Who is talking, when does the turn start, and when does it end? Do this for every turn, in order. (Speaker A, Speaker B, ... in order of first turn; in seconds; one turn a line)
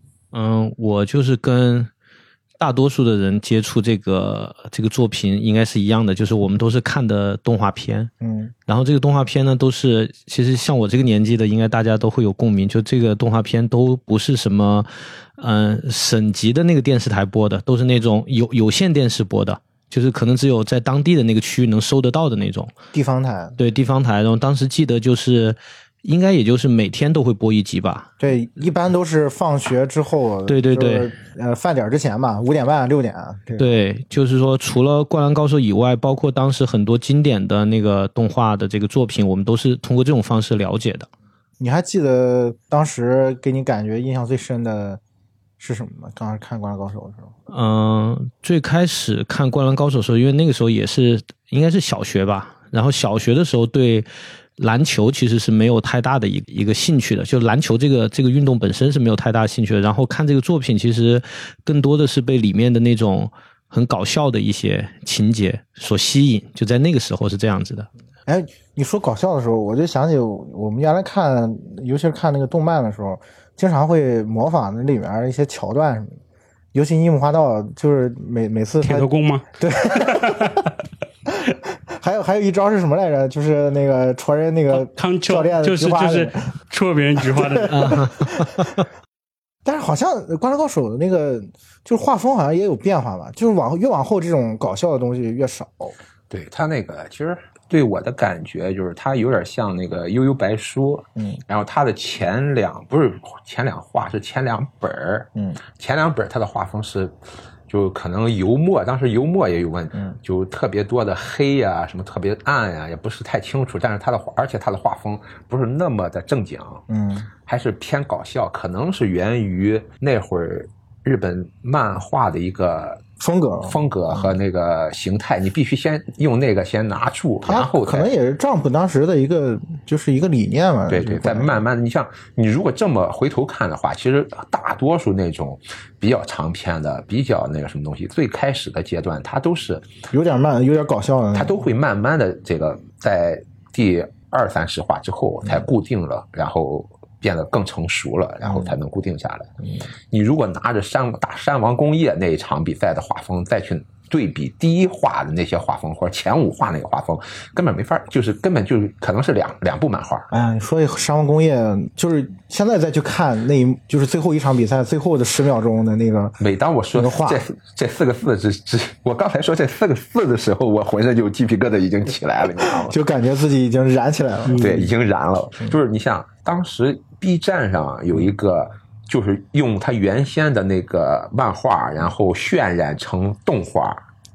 Speaker A: 0.3-1.9
Speaker A: 2.6-8.1
Speaker B: 8.2-8.5
Speaker A: 8.7-22.7
Speaker B: 22.9-23.6
Speaker A: 23.6-28.1
Speaker B: 28.2-33.7
Speaker A: 30.5-31.1
Speaker A: 33.6-41.1
Speaker B: 41.6-45.0
Speaker B: 45.6-47.3
Speaker A: 47.5-67.9
Speaker B: 68.3-76.2
Speaker B: 76.7-80.5
Speaker C: 78.8-80.6
Speaker B: 81.5-86.5
Speaker C: 84.7-87.9
Speaker B: 87.4-88.7
Speaker A: 87.7-88.8
Speaker B: 89.7-96.0
Speaker D: 96.3-107.2
Speaker D: 107.7-116.8
Speaker B: 116.9-117.3
Speaker D: 117.5-123.0
Speaker B: 123.2-124.3
Speaker D: 123.6-128.1
Speaker B: 127.5-131.6
Speaker D: 130.9-139.9
Speaker B: 140.1-141.6
Speaker D: 141.3-149.5
Speaker B: 148.4-148.7
Speaker D: 150.1-160.3
Speaker B: 160.3-166.4
Speaker D: 166.4-173.0
Speaker B: 166.9-167.4
Speaker B: 172.8-174.9
Speaker D: 174.6-184.0